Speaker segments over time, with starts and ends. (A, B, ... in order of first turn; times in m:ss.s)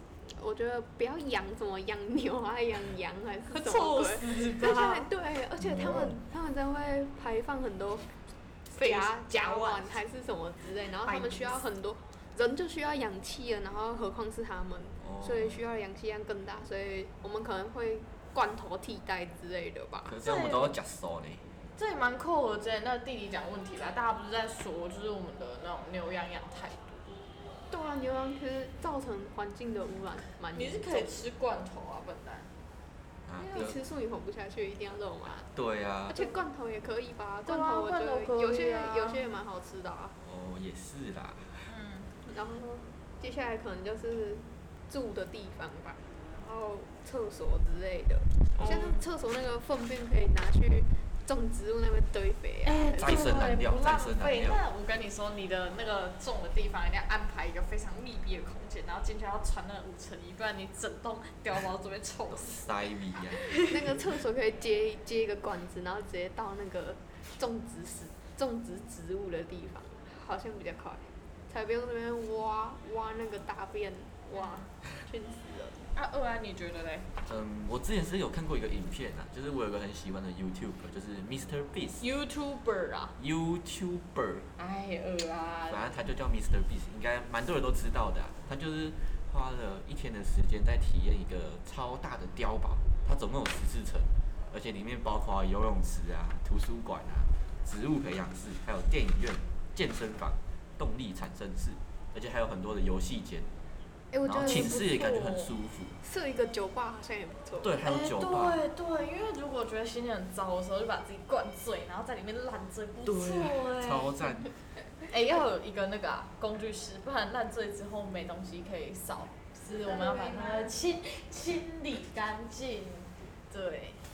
0:00.3-0:08.1 A
0:03.5-0:05.1 B
0:05.6-0:06.1 C
0:08.7-0:20.2 A
0:08.7-0:10.0 B
0:11.0-0:11.6 B
0:15.0-0:15.6 C
0:20.0-0:21.5 C
0:20.2-0:20.7 B
0:21.8-0:27.1 B
0:27.7-0:31.2 A
0:30.5-0:32.5 B
0:33.2-0:33.8 C
0:33.4-0:35.5 A
0:35.5-0:36.2 C
0:36.1-0:40.2 A
0:37.4-0:39.2 B
0:40.2-0:41.7 C
0:41.7-0:42.1 B
0:42.2-0:53.2 A
0:48.6-0:49.0 B
0:52.6-1:02.6 B
0:53.0-0:54.6 C
1:02.3-1:03.5 C
1:03.7-1:15.9 A
1:14.4-1:14.6 B
1:15.9-1:17.1 B
1:17.2-1:22.0 C
1:22.0-1:23.2 B
1:23.2-1:24.5 C
1:24.6-1:26.0 B
1:25.7-1:43.5 C
1:44.1-1:44.9 A
1:44.2-1:46.0 C
1:44.3-1:45.5 B
1:46.0-1:47.8 A
1:47.6-1:48.6 C
1:47.8-1:54.2 B
1:53.0-1:54.5 C
1:55.1-2:04.0 B
2:00.1-2:00.6 A